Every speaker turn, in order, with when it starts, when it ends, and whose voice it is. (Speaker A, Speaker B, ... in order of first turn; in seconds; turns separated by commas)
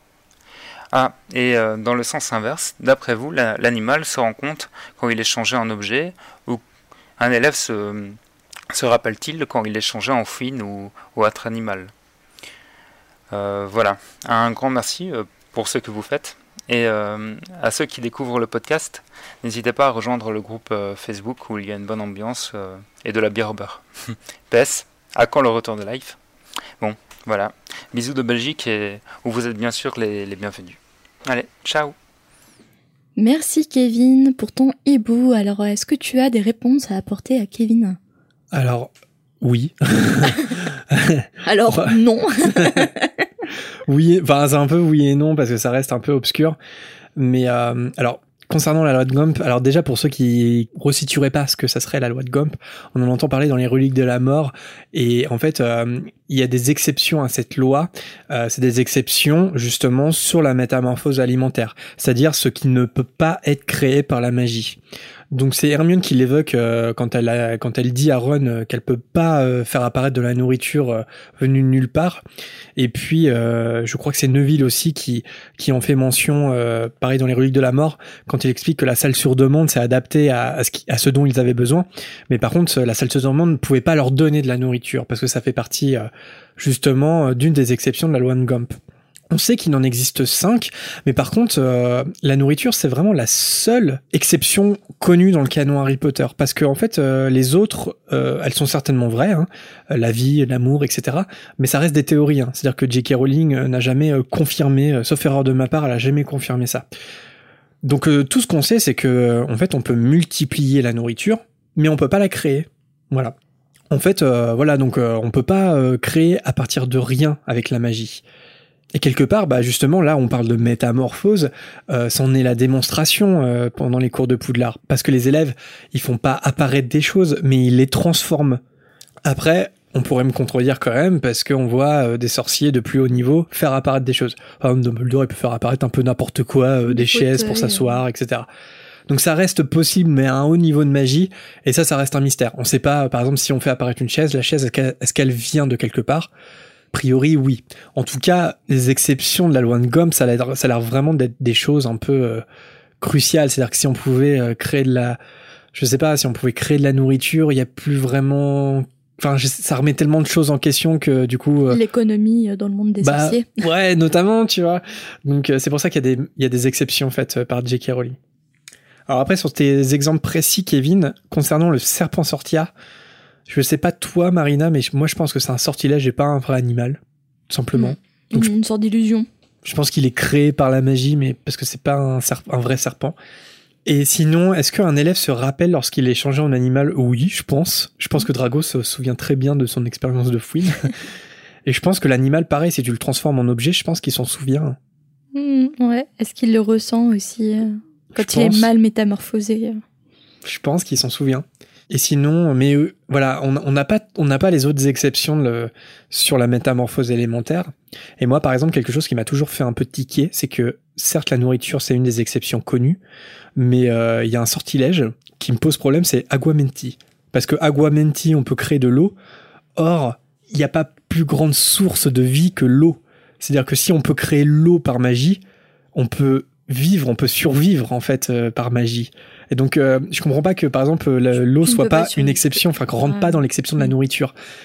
Speaker A: 0.9-6.6, Speaker A: 7.2-8.2, Speaker A: 8.7-11.9, Speaker A: 13.3-26.2, Speaker A: 26.8-31.9, Speaker B: 33.2-38.0, Speaker C: 38.5-41.9, Speaker B: 41.5-43.1, Speaker C: 42.5-42.8, Speaker C: 43.9-46.6, Speaker C: 47.2-64.8, Speaker C: 65.3-72.2, Speaker C: 72.8-88.8, Speaker C: 89.3-106.9, Speaker C: 107.8-113.4, Speaker C: 113.9-118.2, Speaker C: 118.9-128.6, Speaker C: 129.2-138.5, Speaker B: 136.9-138.0, Speaker C: 139.1-146.3, Speaker C: 146.9-152.4, Speaker C: 153.0-155.2, Speaker C: 155.7-161.8, Speaker B: 161.7-163.5, Speaker C: 163.0-168.2, Speaker C: 169.1-172.7, Speaker C: 173.5-178.5, Speaker B: 177.8-179.3, Speaker C: 179.6-183.2, Speaker C: 183.9-190.9, Speaker C: 191.7-194.8, Speaker B: 195.3-199.8, Speaker C: 198.1-198.7, Speaker C: 200.4-213.0, Speaker C: 213.6-219.2, Speaker C: 219.8-225.4, Speaker C: 225.9-234.3, Speaker B: 231.6-233.4